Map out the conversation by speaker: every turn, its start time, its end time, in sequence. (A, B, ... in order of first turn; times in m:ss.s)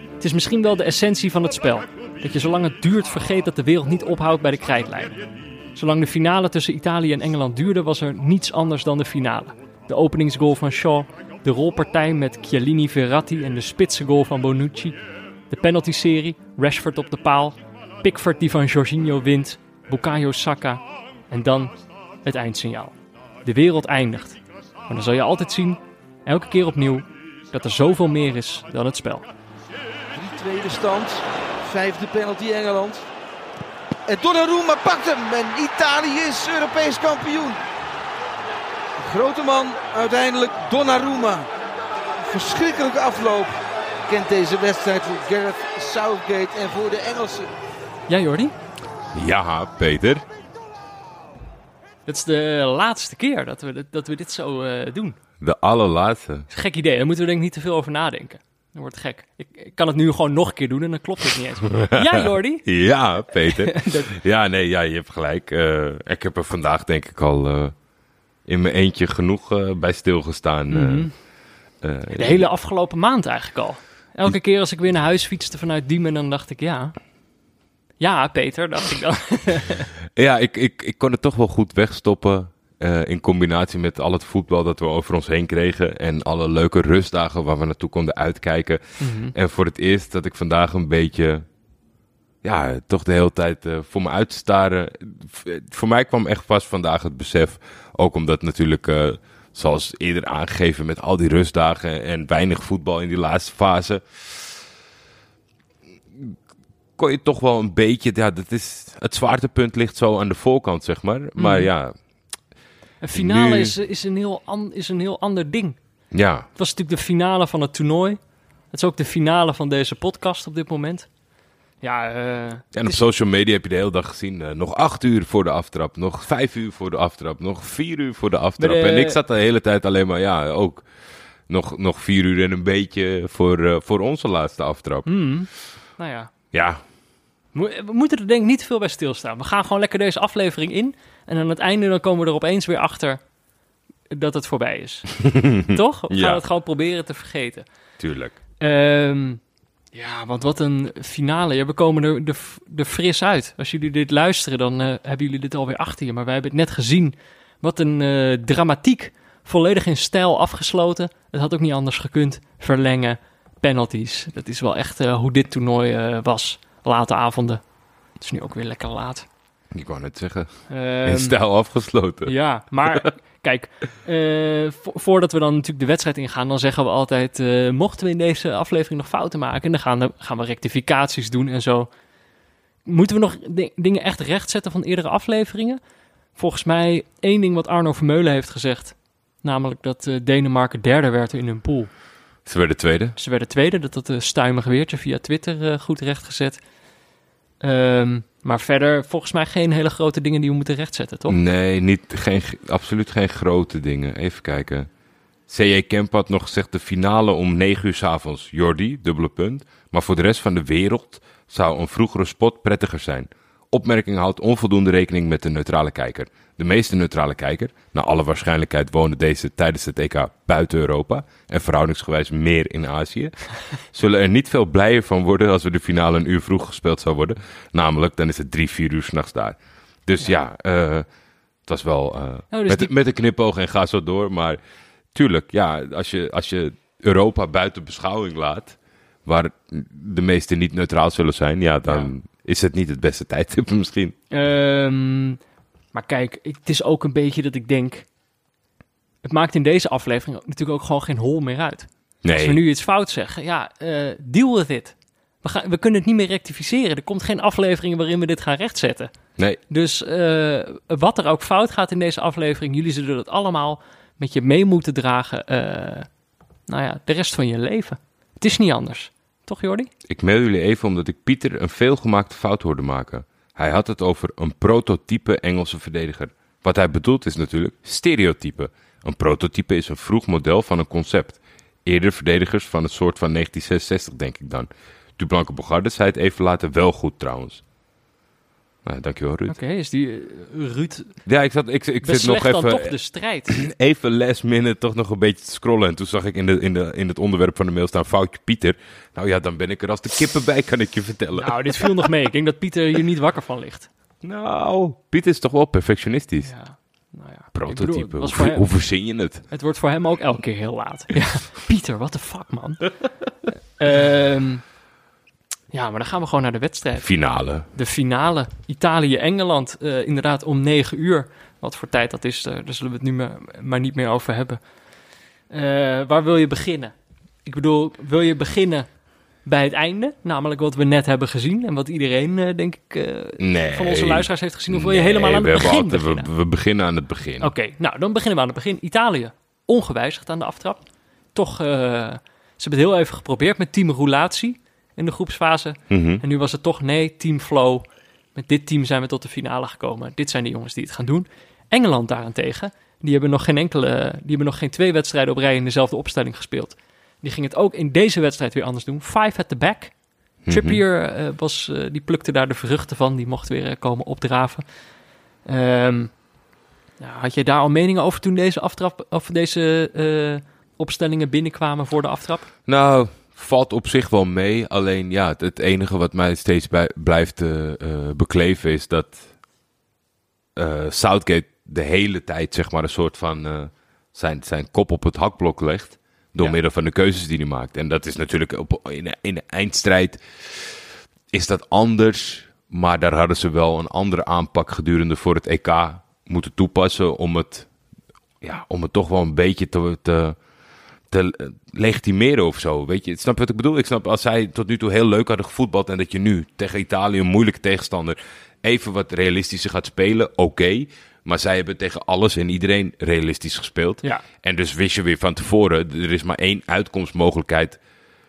0:00.2-0:05.2 A
0:05.7-0:29.3 A
0:30.1-0:33.0 B
0:34.1-0:37.6 B
0:39.0-0:41.5 B
0:42.2-0:47.5 B
0:48.1-0:48.5 A
0:49.1-0:50.2 C
0:52.1-0:55.2 A
0:55.4-0:56.5 C
0:56.5-1:02.6 A
1:01.8-1:07.7 C
1:03.4-1:04.1 A
1:08.4-1:11.1 C
1:10.7-1:11.1 A
1:11.8-1:12.5 C
1:12.2-1:16.9 A
1:18.0-1:19.9 A
1:20.1-1:31.4 C
1:29.0-1:29.3 A
1:32.4-1:44.6 C
1:47.0-1:51.9 C
1:51.4-1:51.7 A
1:53.0-1:55.8 A
1:53.1-1:53.7 C
1:56.1-1:56.5 C
1:56.6-1:58.2 A
1:58.7-2:01.1 A
2:01.8-2:03.0 A
2:02.7-2:10.8 C
2:08.6-2:09.2 A
2:11.5-2:15.1 C
2:15.0-2:16.3 A
2:16.5-2:16.8 C
2:17.5-2:23.2 A
2:24.1-2:27.6 A
2:25.2-2:26.4 C
2:28.0-2:28.4 C
2:28.6-2:29.4 A
2:29.9-2:47.6 A
2:48.2-2:49.3 A
2:49.7-2:52.3 C
2:50.7-2:51.4 A
2:52.2-3:01.9 A
3:02.8-3:05.8 A
3:06.4-3:11.9 A
3:12.4-3:13.2 C
3:13.2-3:16.6 A
3:17.6-3:21.4 A
3:21.3-3:24.9 C
3:25.5-3:51.0 C
3:51.7-3:54.6 C
3:52.5-3:52.9 A
3:55.1-4:04.1 C
4:01.8-4:02.1 A
4:04.3-4:05.4 A
4:05.9-4:08.0 A
4:09.2-4:19.1 A
4:12.2-4:12.6 C
4:19.7-4:26.1 A
4:26.7-4:29.9 A
4:30.1-4:47.6 C
4:48.8-4:49.6 C
4:49.5-4:51.1 A
4:51.2-4:52.9 C
4:52.0-4:53.6 A
4:53.5-5:02.1 C
5:01.4-5:03.9 A
5:04.2-5:06.5 C
5:06.4-5:08.7 A
5:07.5-5:09.4 C
5:09.5-5:12.9 A
5:13.8-5:14.6 A
5:15.7-5:17.1 A
5:17.0-5:17.7 C
5:17.7-5:24.6 A
5:25.5-5:26.9 A
5:27.4-5:28.9 A
5:29.4-5:36.3 A
5:33.4-5:37.5 C
5:37.4-5:40.8 A
5:41.3-5:59.9 A
5:45.9-5:46.2 C
6:00.4-6:00.8 C
6:00.5-6:04.6 A
6:05.5-6:06.1 A
6:07.0-6:12.5 A
6:12.7-6:19.3 C
6:20.6-6:30.8 C
6:31.3-6:37.7 C
6:38.4-6:40.4 C
6:41.1-6:57.8 C